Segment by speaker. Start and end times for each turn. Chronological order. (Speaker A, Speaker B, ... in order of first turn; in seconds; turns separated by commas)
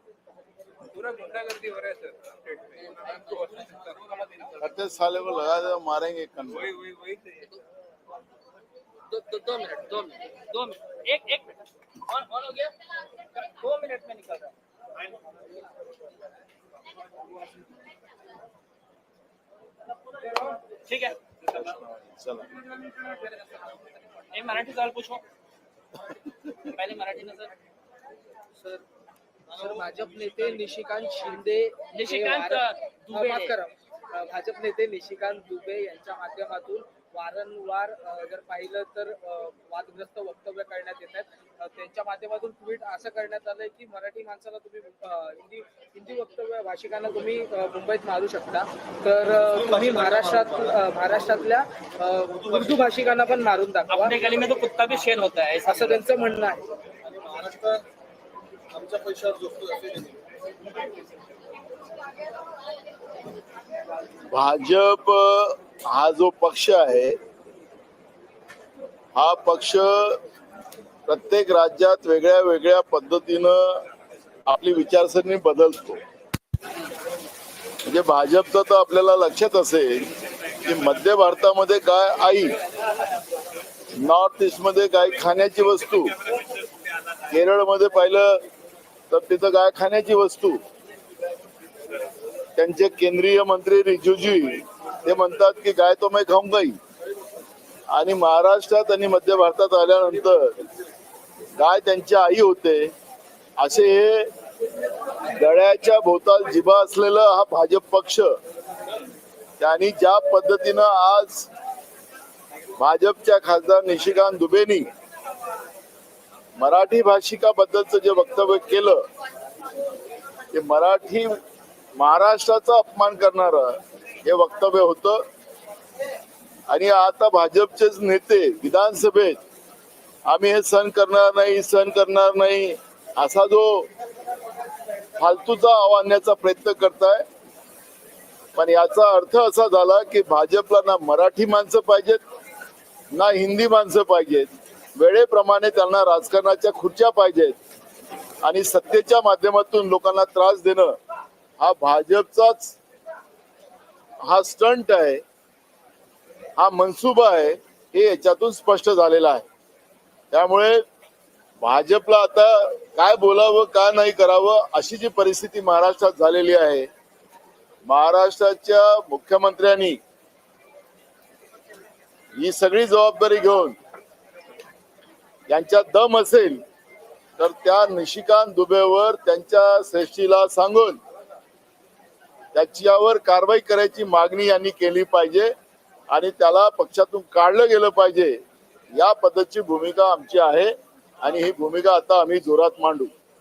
Speaker A: 0.9-2.6, Speaker B: 2.8-4.6, Speaker C: 4.6-6.9, Speaker A: 6.7-7.3, Speaker B: 9.1-14.5, Speaker B: 20.9-21.3, Speaker C: 21.5-22.5, Speaker B: 23.1-23.6, Speaker B: 24.3-25.2, Speaker B: 26.6-27.6, Speaker D: 28.6-28.8, Speaker D: 29.5-54.3, Speaker B: 31.9-33.6, Speaker B: 53.9-56.0, Speaker D: 55.6-56.7, Speaker E: 57.1-57.8, Speaker E: 58.7-60.2, Speaker C: 64.3-67.2, Speaker C: 69.2-70.2, Speaker C: 71.1-73.9, Speaker C: 74.5-76.0, Speaker C: 77.8-80.1, Speaker C: 80.6-82.6, Speaker C: 84.0-86.2, Speaker C: 87.3-88.4, Speaker C: 89.1-90.6, Speaker C: 92.6-96.8, Speaker C: 97.9-100.6, Speaker C: 101.6-102.9, Speaker C: 103.6-104.3, Speaker C: 105.2-108.4, Speaker C: 109.6-111.5, Speaker C: 112.8-114.9, Speaker C: 116.6-119.1, Speaker C: 120.5-121.4, Speaker C: 122.0-125.3, Speaker C: 126.7-129.4, Speaker C: 130.3-133.9, Speaker C: 135.2-137.2, Speaker C: 138.6-142.2, Speaker C: 143.1-147.6, Speaker C: 148.4-151.0, Speaker C: 151.6-152.8, Speaker C: 154.2-155.2, Speaker C: 156.6-159.5, Speaker C: 160.3-160.8, Speaker C: 161.6-166.9, Speaker C: 167.9-170.0, Speaker C: 172.4-173.8, Speaker C: 175.5-176.6, Speaker C: 177.4-181.0, Speaker C: 182.5-185.5, Speaker C: 186.1-188.4, Speaker C: 188.9-193.1